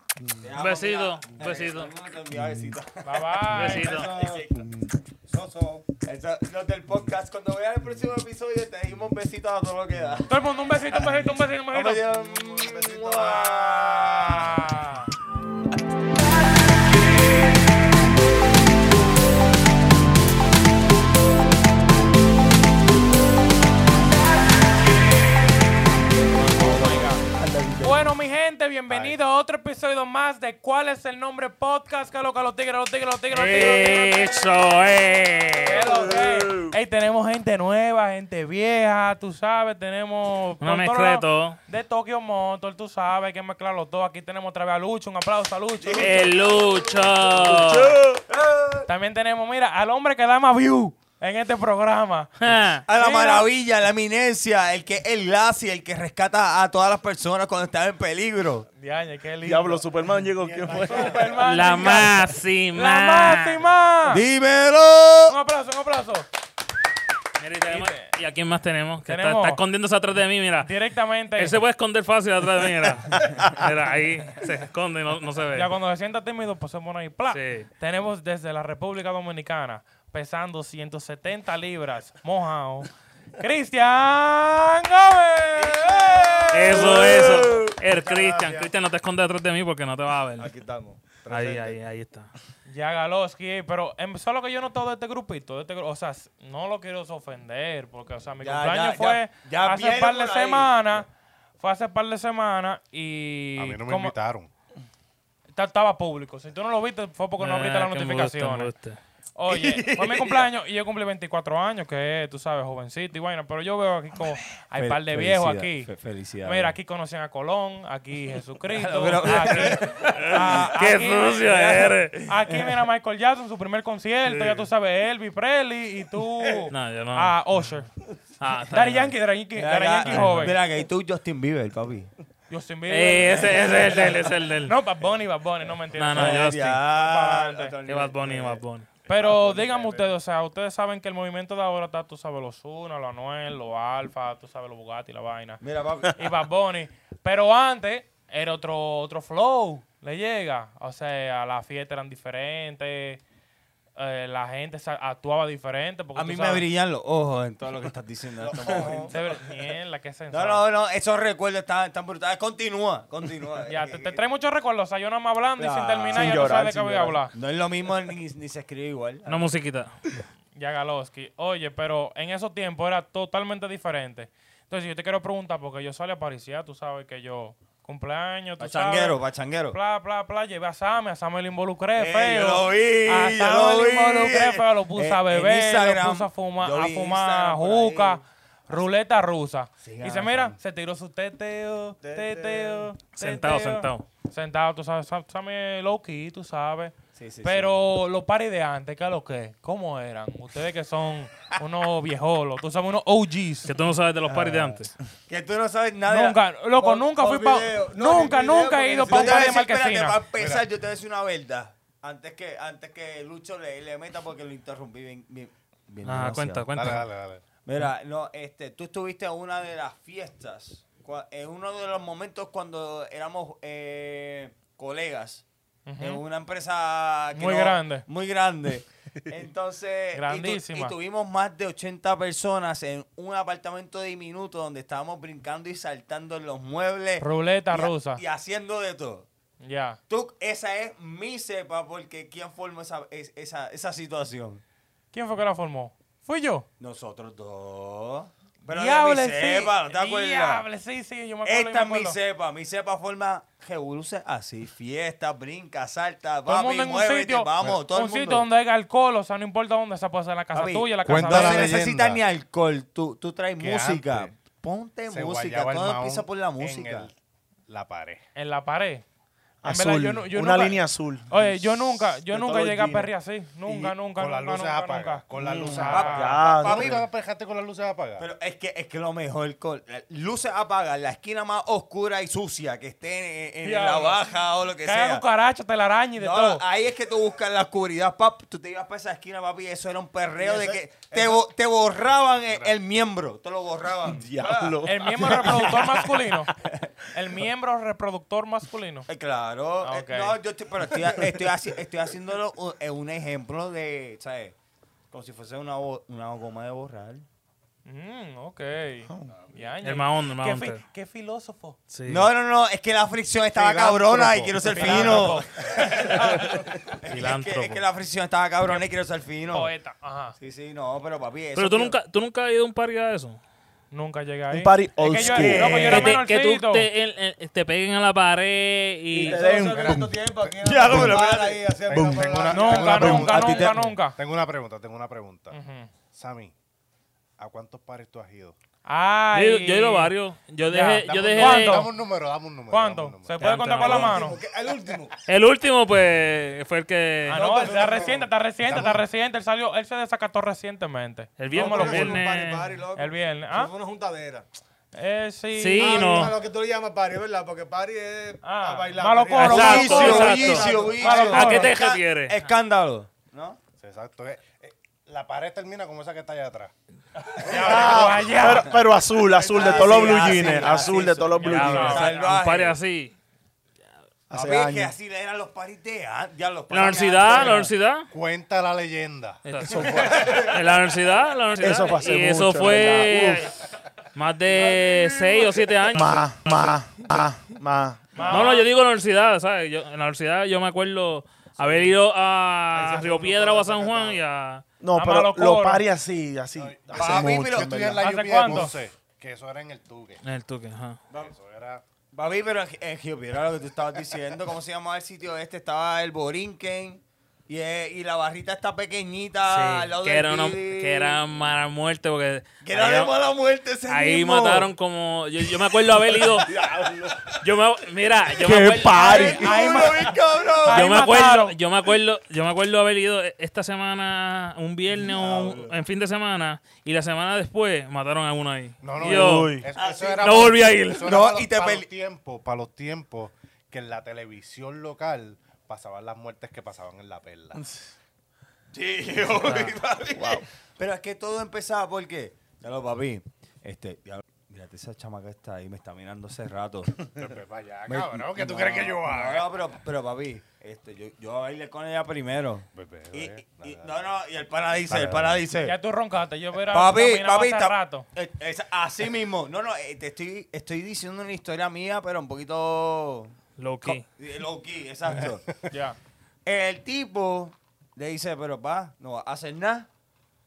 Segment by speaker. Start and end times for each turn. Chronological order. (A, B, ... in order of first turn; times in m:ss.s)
0:00.4-0:04.6 A
0:00.6-0:01.9 B
0:03.0-0:04.0 C
0:03.5-0:04.1 B
0:03.8-0:04.5 D
0:05.3-0:05.8 D
0:06.0-0:10.3 A
0:10.3-0:12.1 C
0:11.0-0:14.5 A
0:12.2-0:14.2 D
0:14.1-0:15.1 C
0:26.4-0:27.2 C
0:26.5-0:28.1 E
0:27.8-0:34.5 C
0:28.9-0:29.2 F
0:33.3-0:36.0 B
0:35.6-0:46.3 C
0:35.8-0:36.8 E
0:40.6-0:41.6 B
0:46.0-0:48.0 B
0:47.3-0:48.2 E
0:48.9-0:52.3 C
0:52.4-0:52.8 B
0:52.9-0:58.7 A
0:52.9-0:53.5 C
0:58.8-0:59.9 C
0:59.4-1:01.3 E
1:00.6-1:04.2 C
1:01.4-1:03.6 B
1:04.1-1:05.4 A
1:05.3-1:06.3 C
1:07.4-1:10.7 B
1:07.7-1:08.1 C
1:09.1-1:09.6 C
1:10.6-1:11.6 C
1:11.4-1:15.7 B
1:15.5-1:27.4 C
1:17.3-1:17.7 B
1:25.9-1:26.4 A
1:26.0-1:27.2 D
1:26.5-1:30.5 B
1:26.7-1:27.8 E
1:27.9-1:28.7 D
1:30.4-1:31.8 D
1:31.3-1:32.3 B
1:32.7-1:41.1 C
1:38.4-1:41.0 A
1:41.6-1:44.1 C
1:43.6-1:44.5 F
1:45.5-1:48.7 C
1:47.4-1:49.0 B
1:49.4-1:55.9 C
1:49.5-1:50.5 A
1:54.8-1:56.8 A
1:56.4-2:07.9 C
1:58.8-2:00.7 A
1:59.4-2:02.3 B
2:04.3-2:04.6 A
2:06.7-2:07.3 B
2:08.4-2:09.1 B
2:08.7-2:10.6 C
2:09.6-2:12.1 A
2:10.1-2:10.6 B
2:12.5-2:14.1 C
2:12.9-2:14.8 B
2:14.6-2:17.8 C
2:16.0-2:16.8 B
2:16.1-2:18.6 A
2:17.9-2:18.9 B
2:19.1-2:25.6 C
2:19.2-2:19.8 A
2:19.2-2:20.1 D
2:25.6-2:26.2 A
2:26.1-2:33.2 C
2:34.0-2:36.6 C
2:36.2-2:39.2 A
2:38.6-2:39.1 D
2:38.7-2:40.6 C
2:40.3-2:44.2 A
2:43.7-2:47.3 C
2:45.6-2:46.6 A
2:46.1-2:47.2 E
2:47.3-2:49.4 A
2:49.3-2:50.0 B
2:50.6-2:59.2 C
2:58.6-2:59.8 A
2:59.7-3:23.7 C
3:02.0-3:08.9 A
3:09.8-3:10.6 A
3:12.0-3:12.9 D
3:13.1-3:14.0 B
3:17.2-3:17.8 A
3:23.7-3:24.9 B
3:24.2-3:26.4 A
3:26.1-3:30.2 C
3:26.8-3:29.6 D
3:29.1-3:36.7 A
3:30.4-3:30.6 F
3:36.0-3:37.1 B
3:36.7-3:37.4 F
3:37.6-3:45.4 A
3:45.9-3:46.2 C
3:46.0-3:59.3 A
3:47.3-3:48.0 C
3:50.1-3:51.0 C
3:57.2-3:58.2 C
3:59.6-4:00.0 C
4:00.1-4:04.6 A
4:05.1-4:06.7 C
4:06.8-4:10.6 A
4:08.6-4:12.2 C
4:11.4-4:18.5 A
4:16.5-4:21.8 C
4:20.5-4:27.1 A
4:21.0-4:22.2 F
4:23.6-4:24.4 F
4:25.1-4:27.2 F
4:27.7-4:28.2 F
4:28.4-4:29.0 C
4:29.6-4:33.1 E
4:29.6-4:36.4 C
4:33.7-4:38.3 F
4:35.4-4:37.0 E
4:35.9-4:37.1 A
4:38.2-4:45.2 A
4:43.6-4:44.2 C
4:44.8-4:46.6 C
4:46.2-4:54.3 A
4:50.4-4:51.4 D
4:54.1-4:56.1 E
4:54.4-4:54.8 D
4:54.8-4:56.5 C
4:57.1-4:59.1 C
4:59.1-5:04.6 A
4:59.8-5:00.4 C
5:05.1-5:07.3 A
5:07.9-5:11.8 C
5:09.8-5:10.8 B
5:11.9-5:12.3 B
5:12.1-5:19.7 A
5:13.5-5:15.4 F
5:14.7-5:16.6 C
5:17.1-5:17.8 B
5:19.5-5:20.4 C
5:20.4-5:22.0 A
5:21.6-5:23.4 B
5:23.9-5:26.9 C
5:24.5-5:26.2 E
5:25.2-5:26.2 A
5:25.6-5:29.5 B
5:29.1-5:30.1 E
5:29.1-5:33.2 D
5:29.6-5:30.1 F
5:30.6-5:31.7 A
5:30.9-5:31.2 E
5:31.9-5:35.6 F
5:31.9-5:33.8 E
5:32.5-5:34.2 C
5:33.2-5:33.8 A
5:35.5-5:35.9 C
5:36.1-5:36.5 F
5:37.4-5:38.6 F
5:38.8-5:40.1 C
5:39.3-5:41.9 B
5:40.7-5:41.9 C
5:41.0-5:43.9 F
5:42.7-5:44.4 C
5:43.4-5:44.2 B
5:43.7-5:45.2 D
5:45.3-5:47.7 B
5:47.3-5:52.2 C
5:47.3-5:48.2 D
5:48.0-5:49.0 F
5:51.4-5:52.7 B
5:51.5-5:54.5 D
5:53.0-5:53.7 C
5:54.9-5:56.3 C
5:55.6-5:56.3 B
5:55.8-6:01.7 D
5:58.4-6:01.7 C
5:59.4-6:02.4 B
5:59.4-6:03.6 A
6:03.8-6:06.7 F
6:07.4-6:08.9 A
6:07.4-6:08.8 C
6:07.5-6:12.1 E
6:09.2-6:11.0 D
6:09.5-6:12.8 A
6:11.4-6:12.4 C
6:11.4-6:13.1 B
6:14.3-6:15.0 E
6:14.3-6:17.7 A
6:16.7-6:18.1 B
6:16.8-6:17.7 C
6:18.1-6:20.4 F
6:19.4-6:23.5 B
6:19.6-6:20.4 E
6:21.6-6:23.5 E
6:24.2-6:26.8 B
6:24.6-6:25.6 D
6:25.9-6:28.2 E
6:28.1-6:28.7 C
6:28.2-6:34.6 B
6:32.7-6:34.2 D
6:34.8-6:38.6 E
6:35.0-6:35.8 C
6:36.6-6:40.2 F
6:37.0-6:37.9 A
6:38.0-6:38.8 C
6:40.2-6:41.0 B
6:41.2-6:41.8 F
6:42.1-6:51.2 A
6:49.4-6:53.1 B
6:52.6-6:54.7 A
6:53.9-6:56.5 B
6:55.4-6:57.3 A
6:56.4-6:57.2 E
6:57.4-6:59.5 B
6:58.4-7:00.2 E
6:58.8-7:01.0 A
6:59.4-7:01.6 C
7:00.7-7:09.6 B
7:05.2-7:05.5 A
7:08.8-7:17.6 F
7:09.0-7:09.7 E
7:09.8-7:10.5 A
7:10.2-7:11.1 B
7:11.0-7:11.9 A
7:17.6-7:17.9 E
7:18.7-7:27.1 A
7:19.4-7:19.8 B
7:20.2-7:20.4 E
7:27.1-7:29.5 F
7:27.9-7:35.8 A
7:32.7-7:34.0 F
7:34.9-7:35.4 F
7:35.6-7:38.1 C
7:36.7-7:45.5 A
7:43.6-7:44.0 B
7:45.2-7:45.6 F
7:45.7-7:46.0 C
7:46.5-7:49.9 A